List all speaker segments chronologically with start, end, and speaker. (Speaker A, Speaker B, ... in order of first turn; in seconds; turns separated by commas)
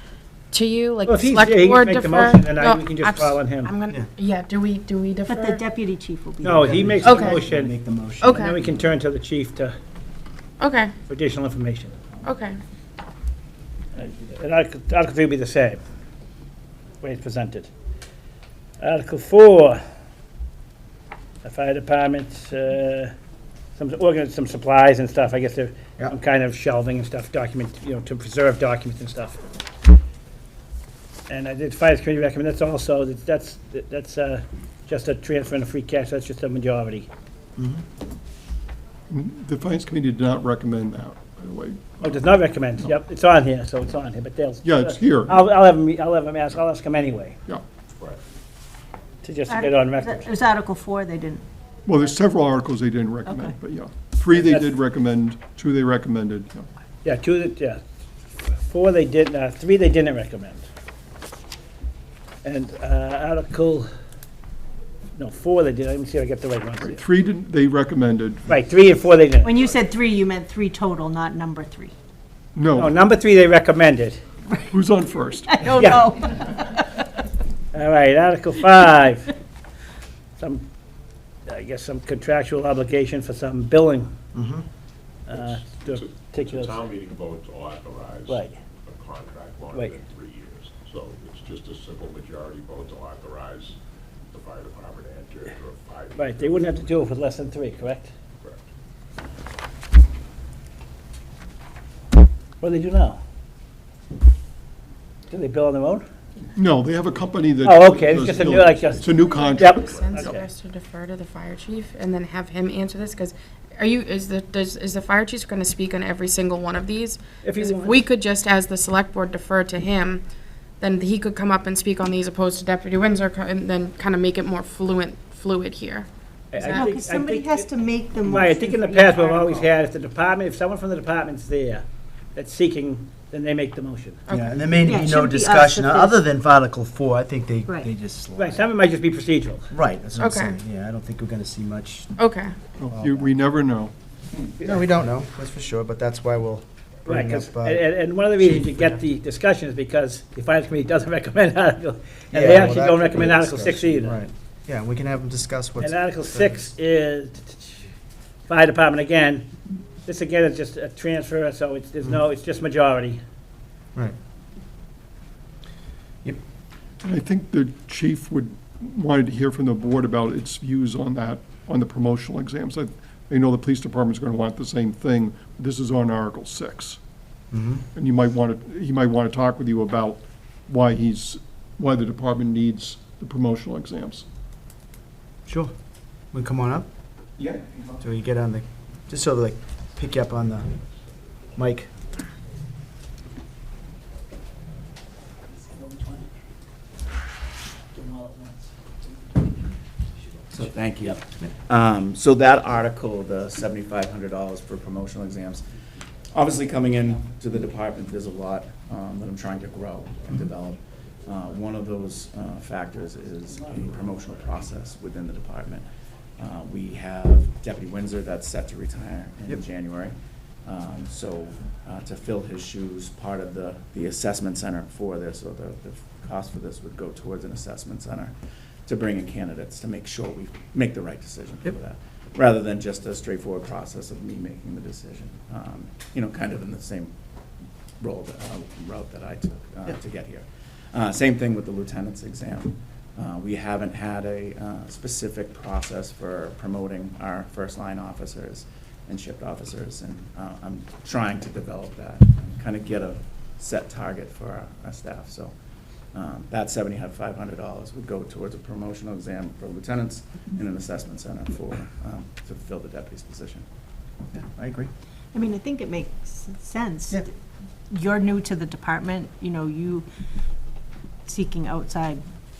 Speaker A: 0.5-5.6, Speaker B: 1.1-3.7, Speaker C: 5.2-6.9, Speaker B: 6.4-7.7, Speaker D: 6.6-8.7, Speaker A: 7.0-7.4, Speaker A: 8.2-8.6, Speaker B: 8.2-9.8, Speaker A: 10.6-10.9, Speaker B: 11.1-11.9, Speaker A: 12.2-12.6, Speaker B: 13.9-15.8, Speaker B: 17.0-17.7, Speaker B: 18.8-19.8, Speaker B: 21.4-23.1, Speaker B: 23.8-29.4, Speaker B: 31.3-37.1, Speaker D: 37.6-37.8, Speaker E: 39.1-42.2, Speaker B: 42.0-47.4, Speaker E: 44.6-45.4, Speaker B: 49.2-50.3, Speaker C: 49.5-51.4, Speaker E: 51.9-56.7, Speaker C: 53.2-53.5, Speaker B: 54.3-54.7, Speaker B: 57.0-57.8, Speaker B: 58.4-60.7, Speaker B: 62.4-63.9, Speaker B: 65.2-67.0, Speaker E: 66.8-68.5, Speaker B: 68.5-69.6, Speaker C: 69.4-71.9, Speaker E: 72.5-73.0, Speaker B: 72.8-74.2, Speaker E: 74.7-75.9, Speaker C: 75.5-77.1, Speaker B: 75.7-76.2, Speaker B: 77.7-79.3, Speaker B: 80.4-80.7, Speaker B: 81.5-84.1, Speaker D: 84.3-84.6, Speaker B: 85.3-86.8, Speaker F: 85.3-93.8, Speaker B: 88.3-88.5, Speaker F: 94.3-97.0, Speaker B: 96.2-98.1, Speaker B: 102.6-103.2, Speaker B: 105.3-106.0, Speaker E: 106.5-110.4, Speaker B: 107.6-110.5, Speaker A: 109.1-120.2, Speaker B: 117.4-118.0, Speaker A: 120.8-126.1, Speaker B: 126.5-134.2, Speaker C: 126.6-129.7, Speaker A: 126.7-126.9, Speaker A: 134.3-134.5, Speaker D: 134.3-138.6, Speaker C: 134.8-136.2, Speaker B: 138.3-139.7, Speaker D: 139.7-142.2, Speaker A: 140.2-140.6, Speaker A: 142.2-142.6, Speaker E: 142.8-143.9, Speaker D: 142.9-143.3, Speaker D: 144.6-147.8, Speaker B: 147.1-154.2, Speaker D: 148.4-149.0, Speaker D: 152.3-156.6, Speaker B: 155.8-157.8, Speaker B: 158.5-159.5, Speaker B: 160.1-163.2, Speaker E: 167.0-177.0, Speaker D: 177.5-177.8, Speaker E: 177.9-184.2, Speaker D: 185.5-185.7, Speaker D: 186.3-186.9, Speaker D: 188.0-190.7, Speaker D: 191.5-191.9, Speaker G: 200.5-205.6, Speaker G: 206.3-215.8, Speaker G: 216.4-228.3, Speaker G: 228.8-237.1, Speaker G: 238.0-255.5, Speaker G: 256.1-263.6, Speaker D: 264.3-264.9, Speaker C: 265.3-267.3, Speaker C: 267.9-270.1, Speaker C: 271.3-272.2